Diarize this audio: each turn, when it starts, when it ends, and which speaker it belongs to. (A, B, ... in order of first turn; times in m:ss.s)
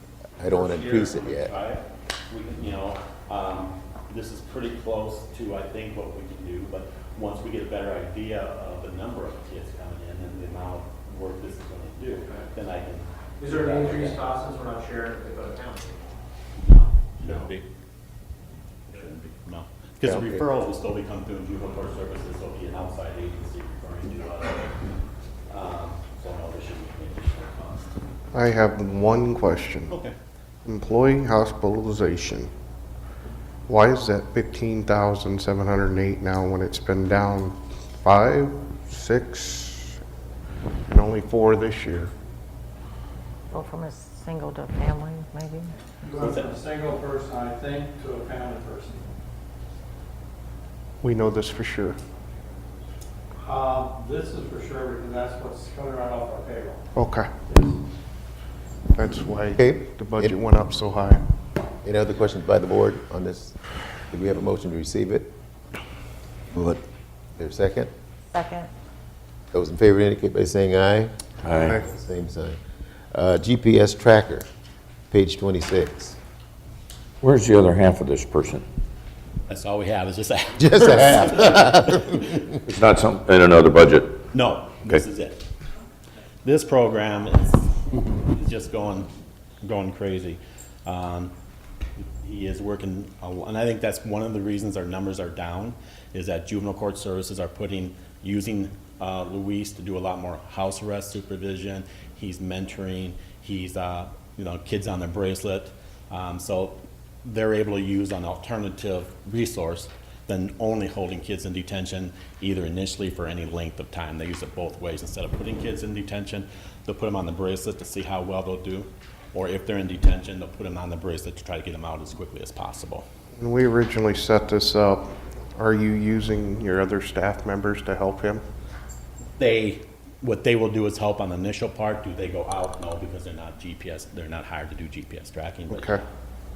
0:00.4-0:01.5 A
0:00.4-0:14.2 B
0:13.4-0:16.2 C
0:16.6-0:17.6 B
0:18.9-0:24.7 B
0:20.0-0:20.4 A
0:25.5-0:27.9 B
0:28.3-0:29.9 D
0:29.9-0:30.2 B
0:30.6-0:32.5 D
0:33.7-0:40.0 D
0:40.9-0:42.1 D
0:43.5-0:45.7 E
0:46.0-0:49.0 F
0:46.2-0:46.5 B
0:51.0-0:52.0 D
0:53.4-0:56.8 F
0:57.0-0:57.4 D
0:58.9-1:01.2 D
0:59.6-1:00.4 A
1:01.8-1:03.6 A
1:04.1-1:05.3 A
1:07.4-1:07.9 A
1:08.3-1:08.7 E
1:09.5-1:11.1 A
1:11.4-1:11.8 G
1:11.7-1:12.6 A
1:13.1-1:14.5 A
1:15.1-1:16.2 A
1:17.2-1:18.6 G
1:19.5-1:22.4 B
1:20.6-1:22.4 A
1:22.7-1:24.2 G
1:24.3-1:25.4 B
1:26.4-1:29.1 B
1:29.6-1:31.3 B
1:32.2-2:03.0 B
2:03.4-2:08.4 D
2:09.4-2:16.0 B
2:15.7-2:16.0 D